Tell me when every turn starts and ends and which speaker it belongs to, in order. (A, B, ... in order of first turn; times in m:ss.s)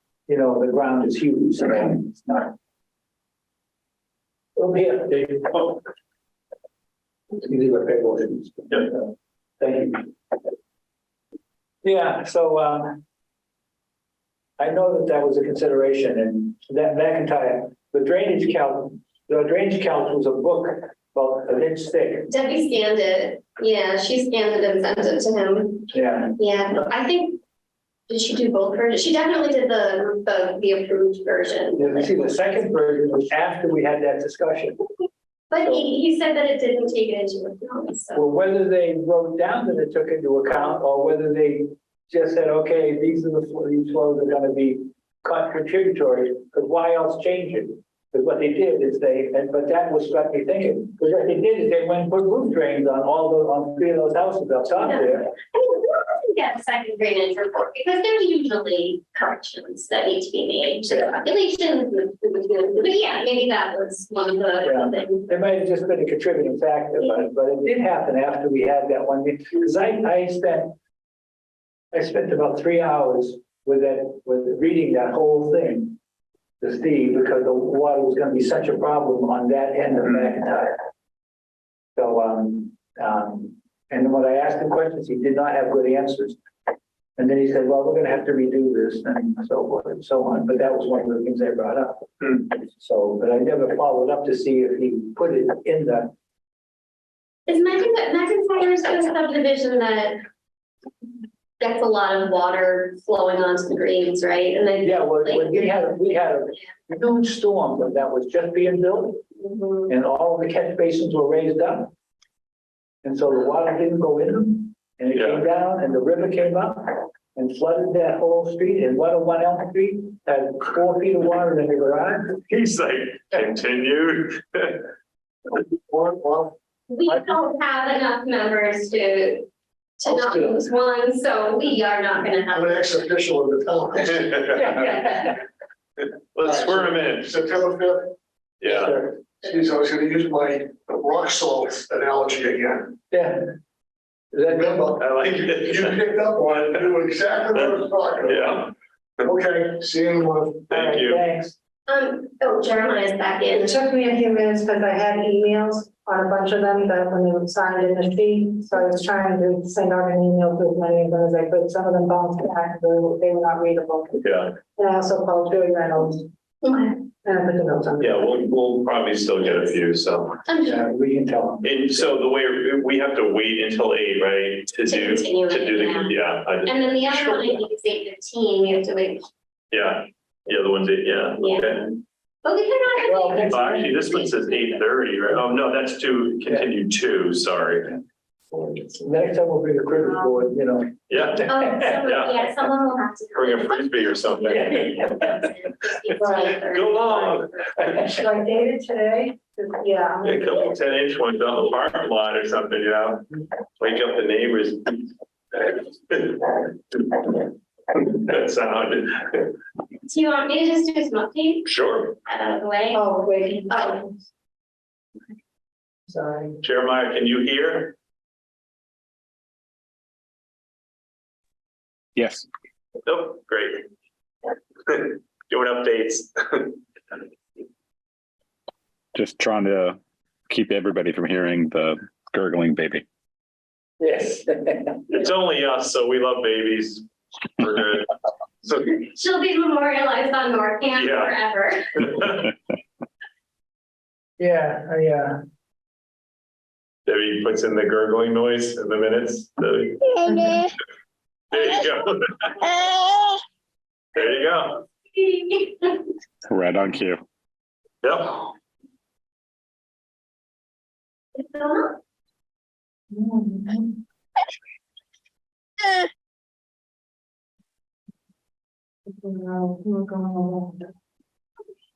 0:00.3-0:02.5 A
0:04.6-0:05.8 A
0:07.3-0:10.1 A
0:11.8-0:13.0 A
0:14.6-0:22.3 A
0:22.3-0:27.4 B
0:25.9-0:26.4 A
0:28.1-0:32.5 B
0:31.8-0:34.8 A
0:35.5-0:38.2 B
0:38.1-0:55.3 A
0:54.8-1:05.3 B
1:00.9-1:01.2 A
1:04.6-1:10.8 A
1:11.9-1:16.0 A
1:16.6-1:20.8 A
1:22.0-1:26.4 A
1:27.2-1:36.1 A
1:37.5-1:40.2 B
1:41.6-1:46.0 B
1:44.8-1:49.2 A
1:49.4-1:49.9 B
1:49.9-1:51.9 A
1:53.0-2:02.4 A
1:55.1-1:55.5 C
2:02.5-2:04.9 C
2:05.9-2:06.6 D
2:06.9-2:09.5 B
2:10.0-2:12.8 B
2:12.5-2:14.7 D
2:14.6-2:15.4 A
2:16.4-2:17.3 C
2:16.4-2:18.1 D
2:18.6-2:18.9 C
2:18.7-2:19.1 A
2:19.4-2:23.0 D
2:23.1-2:23.5 A
2:24.3-2:24.8 A
2:24.5-2:28.6 D
2:25.0-2:26.0 C
2:28.2-2:28.7 C
2:29.2-2:30.7 D
2:30.7-2:31.2 C
2:30.7-2:31.6 A
2:31.9-2:33.7 B
2:33.5-2:46.2 E
2:44.2-2:44.5 C
2:46.6-2:47.0 B
2:47.2-2:48.3 E
2:48.0-2:50.4 C
2:50.5-2:50.8 B
2:50.6-2:52.0 A
2:51.6-2:56.8 C
2:54.9-2:59.2 B
2:59.7-3:01.8 C
3:01.4-3:04.3 B
3:03.0-3:04.1 A
3:03.5-3:08.0 C
3:08.5-3:11.9 A
3:11.1-3:12.4 C
3:11.5-3:17.9 B
3:13.4-3:15.2 C
3:14.5-3:15.5 A
3:16.2-3:16.6 E
3:16.6-3:18.1 C
3:18.0-3:20.6 E
3:20.2-3:23.2 C
3:23.8-3:25.0 C
3:25.5-3:29.5 C
3:30.1-3:31.6 B
3:31.7-3:32.2 C
3:32.2-3:33.0 B
3:32.9-3:33.7 E
3:33.6-3:34.0 B
3:36.1-3:36.6 E
3:36.6-3:38.0 C
3:42.2-3:42.5 F
3:43.1-3:43.8 C
3:44.9-3:46.8 C
3:49.2-3:53.1 F
3:54.0-3:55.1 A
3:55.1-3:57.0 C
3:57.6-3:58.1 C
3:58.6-3:59.0 C
3:59.0-4:01.8 B
4:01.0-4:01.4 C
4:02.0-4:02.5 C
4:04.4-4:05.4 A
4:07.1-4:10.2 C
4:11.5-4:12.7 C
4:14.2-4:14.8 C
4:15.2-4:16.0 B
4:16.5-4:17.2 F
4:18.0-4:18.5 C
4:21.4-4:22.0 B
4:23.2-4:23.9 E
4:29.2-4:30.8 E